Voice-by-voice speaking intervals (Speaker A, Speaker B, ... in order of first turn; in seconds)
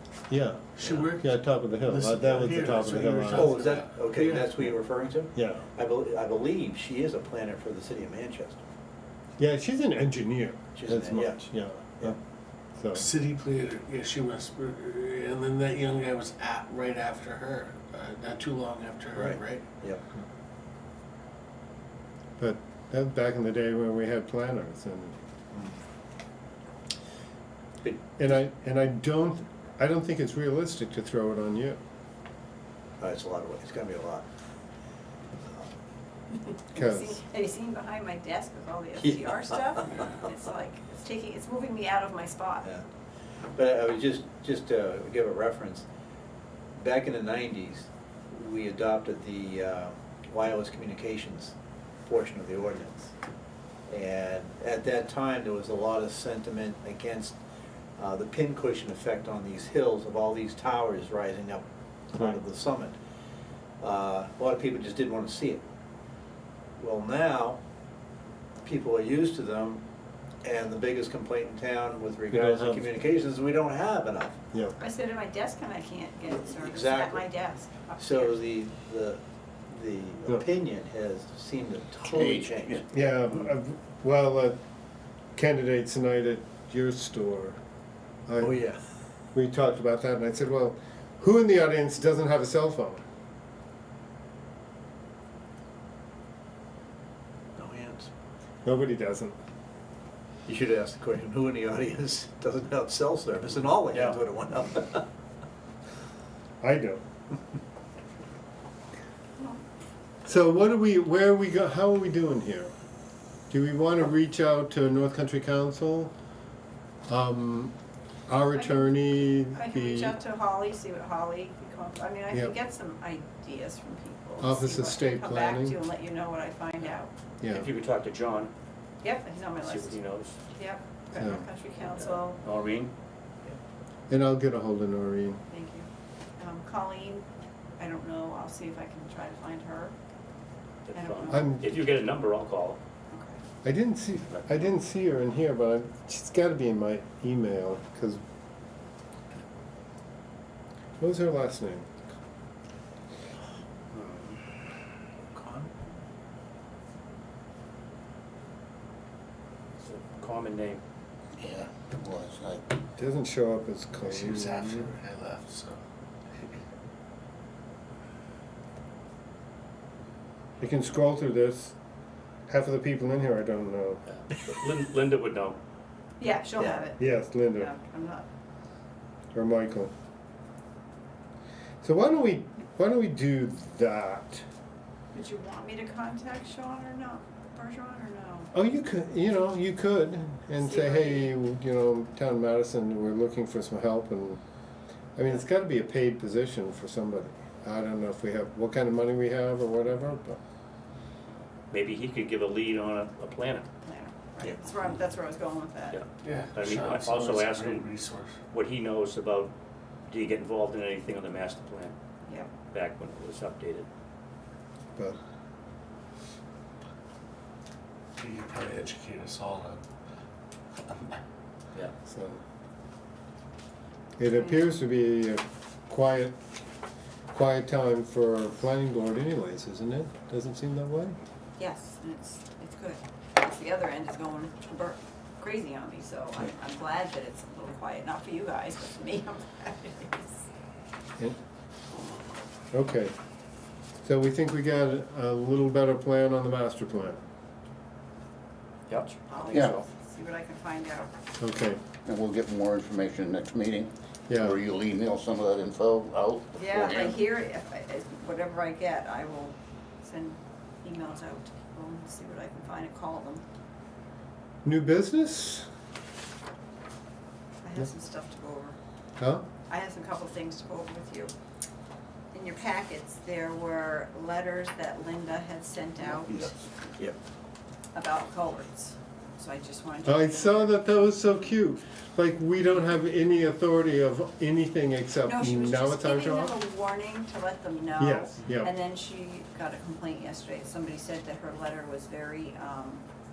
Speaker A: 0.3-0.7, 1.2-3.6, 5.3-5.6, 9.4-12.2, 12.8-13.1, 22.4-25.1, 28.2-31.8, 36.7-37.2, 72.3-72.9, 74.5-74.8, 82.9-84.6, 85.3-87.6, 88.3-88.6, 89.3-93.0, 98.6-99.3, 106.6-107.0, 110.2-112.7, 113.5-116.1, 117.1-117.8, 118.3-120.2, 124.4-125.8, 127.4-127.7, 131.1-131.4, 134.1-135.4, 141.3-141.7, 143.6-148.2, 151.0-151.9, 163.0-164.9, 170.6-171.8, 172.5-174.0, 177.0-177.7, 179.3-179.9, 181.8-184.4, 188.5-194.4, 195.2-200.4, 222.1-222.4, 224.2-226.4, 227.3-231.2, 242.7-243.1, 244.0-247.2, 251.4-251.8, 254.3-254.6, 264.6-265.7, 269.2-269.4, 280.0-286.6, 288.0-288.7
Speaker B: 0.8-4.7, 12.9-19.7, 164.0-165.8, 206.2-208.3, 218.2-219.8, 220.9-221.2
Speaker C: 3.3-8.6, 10.7-12.1, 19.1-20.0, 33.0-34.2, 35.4-35.7, 39.0-40.1, 43.5-45.8, 46.7-53.1, 53.9-57.4, 58.0-63.0, 63.8-65.6, 66.8-67.6, 68.6-69.8, 70.4-74.4, 76.4-77.3, 78.0-82.9, 88.4-88.8, 97.6-98.1, 100.5-105.0, 155.3-155.7, 176.6-176.8
Speaker D: 36.3-42.6, 74.8-78.4, 109.4-109.6, 118.5-127.1, 129.0-132.4, 135.5-137.2, 137.8-139.9, 140.9-141.6, 143.1-143.4, 176.2-178.2, 185.1-188.5, 190.6-191.3, 203.8-206.0, 212.2-212.5, 224.4-224.7, 231.6-240.4, 249.1-251.1, 256.5-263.4, 267.6-268.8, 269.7-271.3, 272.3-276.5, 277.9-281.5, 285.2-293.1
Speaker E: 82.1-82.8, 161.4-162.6, 252.0-253.9, 254.5-257.1
Speaker F: 103.9-104.2, 127.5-128.5, 129.6-130.4, 132.3-132.9, 140.8-142.8, 144.3-144.7, 153.9-154.4, 159.8-160.8, 174.3-175.6, 201.7-203.7, 205.9-207.9, 208.5-209.5, 210.1-211.9, 212.7-213.9, 248.9-249.8